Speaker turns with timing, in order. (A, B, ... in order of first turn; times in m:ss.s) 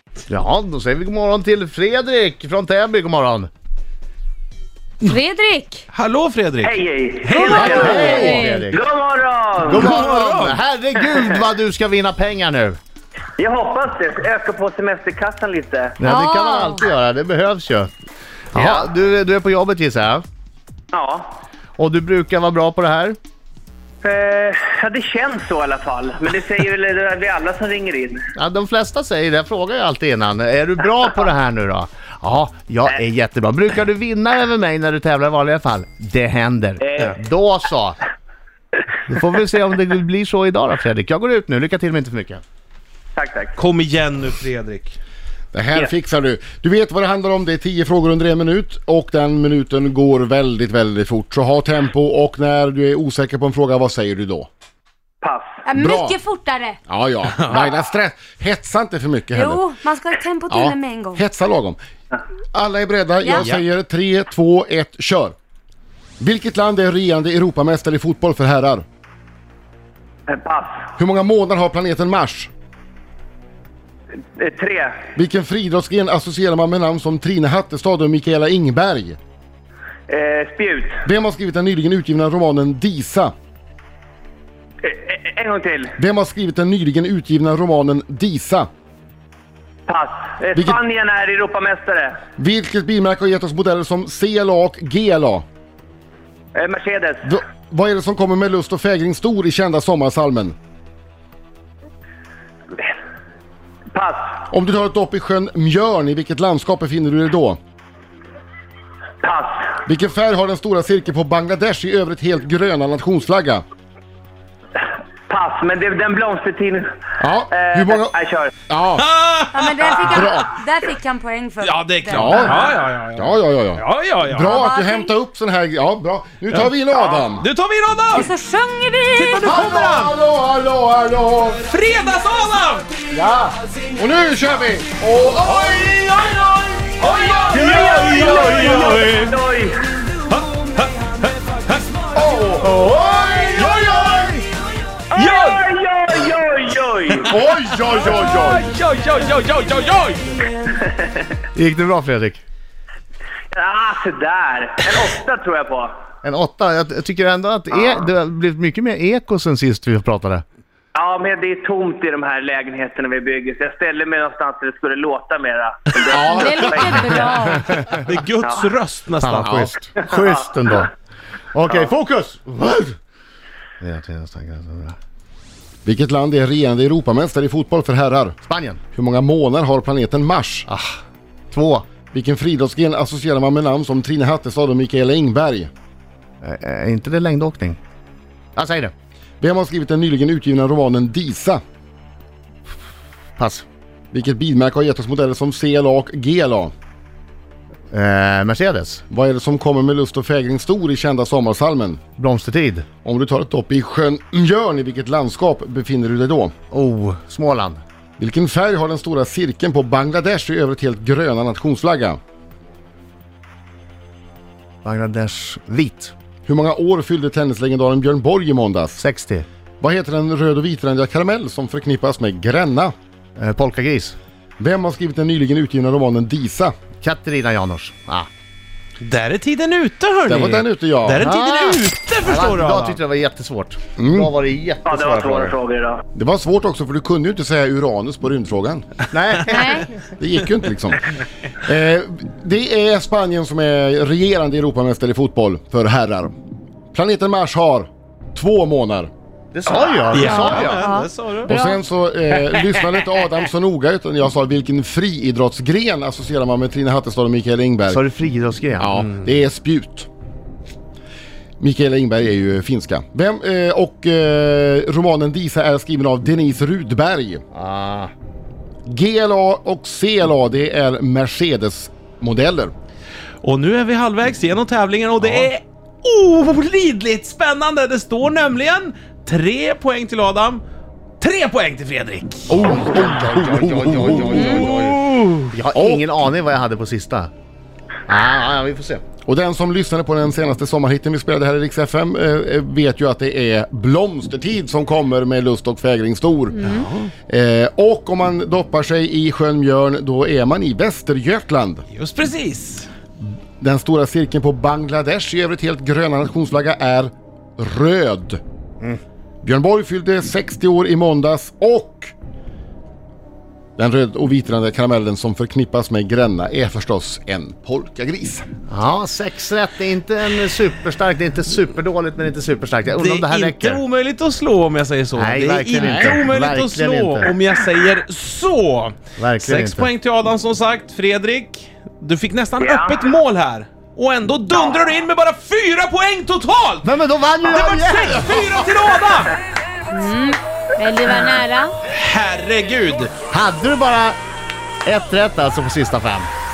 0:00.3-0:03.5 A
0:05.0-0:05.8 B
0:05.9-0:08.2 C
0:06.6-0:09.9 D
0:07.4-0:08.8 A
0:07.8-0:08.6 B
0:09.6-0:12.8 A
0:09.7-0:10.6 C
0:13.4-0:16.0 D
0:16.0-0:17.9 A
0:16.0-0:16.8 B
0:18.5-0:20.2 A
0:18.6-0:18.8 D
0:20.9-0:21.2 D
0:21.8-0:23.2 A
0:24.0-0:28.2 D
0:28.4-0:38.0 A
0:36.8-0:37.2 D
0:39.0-0:42.4 A
0:43.2-0:43.5 D
0:43.6-0:45.0 C
0:45.5-0:54.5 E
0:55.2-0:55.6 D
0:55.6-0:56.8 B
0:55.8-0:56.2 E
0:56.9-0:59.6 E
0:57.4-0:57.6 C
0:59.3-1:01.2 B
1:00.5-1:01.8 E
1:02.5-1:05.3 E
1:03.2-1:03.6 B
1:03.3-1:03.6 C
1:06.2-1:08.8 E
1:10.3-1:10.8 D
1:11.0-1:12.5 E
1:14.4-1:15.0 D
1:15.1-1:19.2 E
1:20.1-1:21.0 D
1:21.0-1:23.3 E
1:24.8-1:25.9 D
1:26.0-1:28.7 E
1:29.9-1:32.2 D
1:30.5-1:30.8 E
1:32.4-1:35.4 E
1:36.5-1:37.3 D
1:37.2-1:40.6 E
1:43.9-1:44.4 D
1:44.5-1:47.6 E
1:49.2-1:49.8 D
1:49.8-1:53.6 E
1:55.3-1:56.8 D
1:57.2-1:58.1 E
1:57.5-1:58.5 D
1:58.7-1:59.0 E
1:59.0-2:00.5 C
1:59.5-2:02.8 B
2:00.1-2:00.6 E
2:01.6-2:04.5 C
2:02.1-2:07.4 E
2:04.4-2:05.1 B
2:06.5-2:08.3 C
2:08.1-2:09.5 B
2:09.1-2:10.1 C
2:09.4-2:11.6 E
2:11.7-2:12.9 C
2:13.1-2:19.0 E
2:15.4-2:19.4 C
2:17.5-2:19.9 D
2:20.3-2:22.0 C
2:22.1-2:24.3 E
2:23.6-2:24.4 C
2:25.1-2:25.6 C
2:25.1-2:27.3 D
2:27.3-2:28.7 E
2:27.8-2:30.5 C
2:30.6-2:31.3 D
2:31.5-2:32.4 A
2:33.5-2:35.9 D
2:36.2-2:40.4 A
2:37.7-2:38.0 D
2:40.9-2:47.4 D
2:46.1-2:47.2 E
2:46.2-2:47.7 B
2:47.4-2:47.9 A
2:47.9-2:49.7 C
2:48.4-2:48.7 D
2:49.2-2:50.9 A
2:49.4-2:49.7 E
2:51.5-2:53.0 A
2:53.8-2:55.0 A
2:55.8-2:58.4 E
2:58.4-2:58.8 A
2:58.9-3:00.7 E
3:00.7-3:01.0 A
3:01.5-3:01.8 A
3:02.1-3:05.7 E
3:06.4-3:07.8 A
3:08.6-3:08.9 A
3:09.4-3:11.6 E
3:13.4-3:13.6 A
3:14.1-3:16.7 E
3:17.9-3:19.0 A
3:19.1-3:22.0 E
3:22.2-3:22.8 A
3:23.0-3:26.5 E
3:26.7-3:27.8 A
3:28.2-3:32.2 E
3:34.8-3:36.1 A
3:36.4-3:39.0 E
3:39.0-3:39.5 A
3:39.8-3:42.9 E
3:43.4-3:44.2 A
3:44.6-3:46.7 E
3:47.0-3:48.3 A
3:49.0-3:53.0 C
3:50.3-3:51.2 E
3:51.2-3:55.6 A
3:54.0-3:54.3 E
3:54.8-3:56.0 D
3:56.1-3:58.8 E
3:59.1-3:59.8 A
3:59.5-3:59.9 B
3:59.9-4:01.0 E
4:01.6-4:06.3 E
4:06.9-4:09.1 E
4:09.5-4:10.9 A
4:10.1-4:11.5 C
4:10.2-4:11.8 B
4:11.5-4:18.0 E
4:17.9-4:19.0 A
4:18.8-4:20.1 E
4:21.6-4:27.4 E
4:27.5-4:28.1 A
4:28.8-4:32.7 E
4:33.4-4:40.6 C
4:41.2-4:42.5 C
4:42.5-4:44.7 E
4:42.5-4:47.3 A
4:44.5-4:45.5 C
4:45.7-4:46.1 E
4:48.1-4:49.0 A
4:49.2-5:01.8 E
4:56.7-4:57.1 C
5:01.9-5:02.9 C
5:03.6-5:08.4 E
5:09.4-5:12.1 E
5:13.8-5:18.4 E
5:18.7-5:23.8 A
5:22.9-5:36.9 C
5:25.2-5:27.3 A
5:29.2-5:29.9 A
5:32.6-5:33.0 D
5:36.8-5:38.7 A
5:37.4-5:39.4 C
5:39.9-5:41.7 B
5:41.8-5:43.1 C
5:43.3-5:44.2 A
5:44.8-5:46.3 A